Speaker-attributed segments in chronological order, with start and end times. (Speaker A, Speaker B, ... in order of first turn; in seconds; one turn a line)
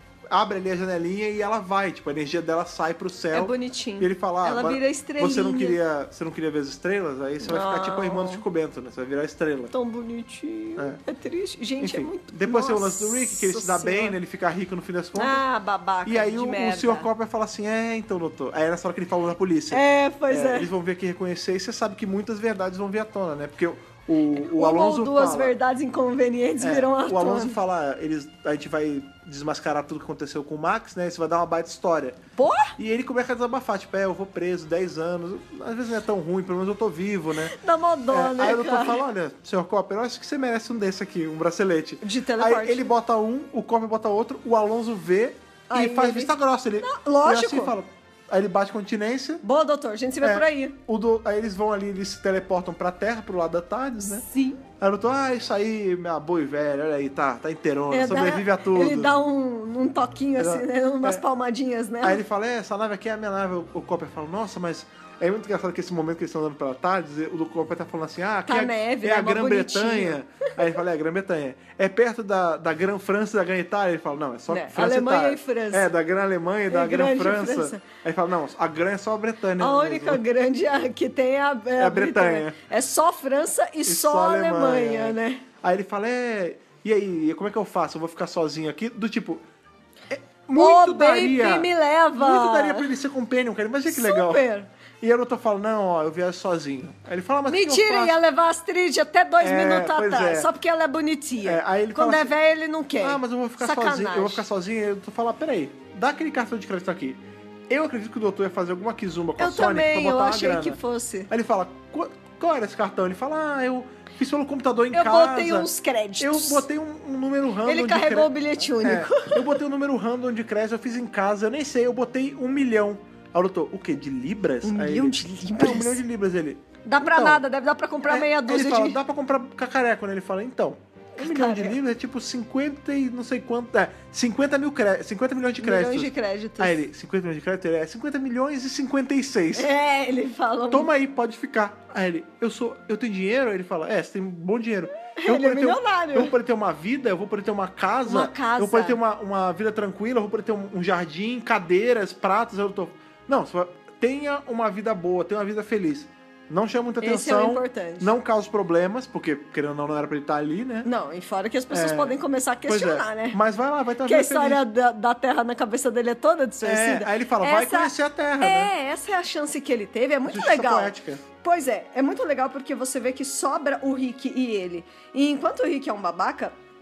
Speaker A: 0.3-9.7
Speaker B: 3.3-5.8
Speaker B: 7.4-8.4
Speaker B: 9.7-14.2
Speaker A: 11.8-15.4
Speaker B: 15.2-17.1
Speaker A: 16.1-25.5
Speaker B: 19.7-20.7
Speaker B: 24.3-27.6
Speaker A: 26.6-32.2
Speaker B: 32.4-32.7
Speaker A: 32.8-37.5
Speaker B: 37.5-39.0
Speaker A: 38.1-49.4
Speaker B: 42.0-42.9
Speaker B: 45.7-47.7
Speaker B: 49.4-50.8
Speaker A: 50.2-54.2
Speaker B: 54.0-54.6
Speaker A: 54.8-59.1
Speaker B: 57.9-62.2
Speaker A: 60.4-61.2
Speaker A: 62.0-80.2
Speaker B: 68.5-70.2
Speaker B: 74.5-75.9
Speaker B: 76.7-77.8
Speaker B: 79.6-85.4
Speaker A: 81.8-82.5
Speaker A: 83.8-89.4
Speaker A: 90.1-94.4
Speaker B: 90.5-92.9
Speaker B: 93.9-94.7
Speaker A: 95.0-98.2
Speaker B: 97.5-104.4
Speaker A: 99.4-100.5
Speaker A: 101.4-102.3
Speaker A: 103.0-110.8
Speaker B: 109.4-111.3
Speaker A: 111.3-115.7
Speaker B: 114.9-116.6
Speaker A: 116.2-127.4
Speaker B: 117.6-119.5
Speaker B: 124.6-126.0
Speaker B: 126.8-129.0
Speaker A: 128.1-139.7
Speaker B: 131.2-131.8
Speaker B: 135.6-136.8
Speaker B: 139.5-140.9
Speaker A: 140.7-160.9
Speaker B: 145.1-146.3
Speaker B: 148.1-149.0
Speaker B: 157.0-158.1
Speaker B: 160.8-163.4
Speaker A: 161.7-164.6
Speaker B: 164.0-176.5
Speaker A: 166.6-168.7
Speaker A: 170.2-171.2